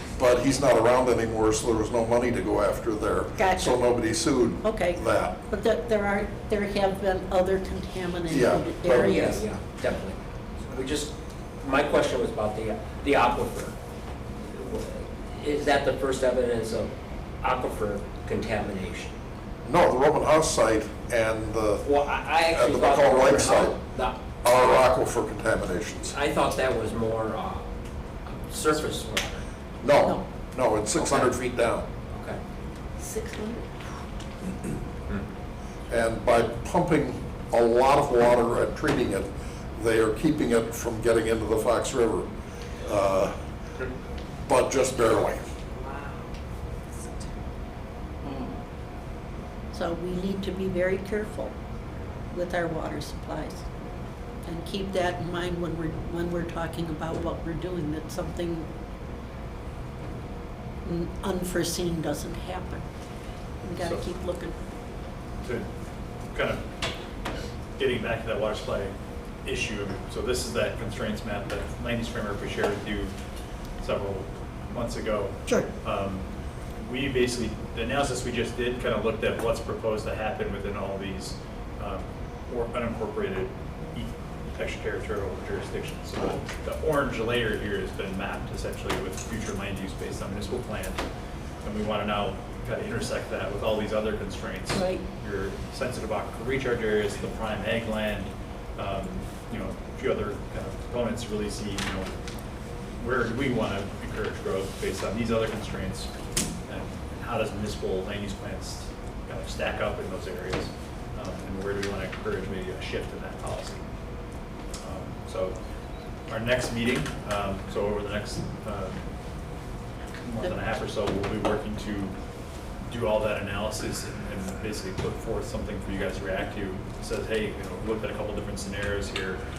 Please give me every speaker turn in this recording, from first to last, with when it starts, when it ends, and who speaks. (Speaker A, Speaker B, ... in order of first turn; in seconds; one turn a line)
Speaker A: 0.1-5.3
Speaker B: 3.4-3.8
Speaker B: 4.6-9.4
Speaker A: 8.3-9.2
Speaker C: 8.8-13.7
Speaker C: 14.4-19.1
Speaker A: 19.6-21.9
Speaker C: 21.8-24.2
Speaker A: 22.5-23.8
Speaker A: 24.4-26.1
Speaker C: 26.1-27.7
Speaker C: 28.2-29.4
Speaker A: 29.8-31.9
Speaker C: 30.9-31.3
Speaker C: 32.1-32.4
Speaker B: 33.0-33.7
Speaker A: 35.9-42.3
Speaker A: 42.8-43.4
Speaker A: 44.5-45.5
Speaker B: 49.7-51.5
Speaker B: 52.3-53.6
Speaker B: 54.4-58.7
Speaker B: 60.8-62.8
Speaker B: 63.6-64.5
Speaker D: 67.8-68.9
Speaker D: 69.4-73.1
Speaker D: 73.8-75.3
Speaker D: 75.8-76.2
Speaker D: 76.8-91.0
Speaker D: 91.6-94.7
Speaker B: 94.7-95.0
Speaker D: 95.2-102.1
Speaker D: 103.0-106.1
Speaker D: 106.7-110.6
Speaker D: 111.2-113.5
Speaker D: 114.8-115.5
Speaker D: 116.3-118.9
Speaker D: 120.4-122.1
Speaker D: 122.9-129.3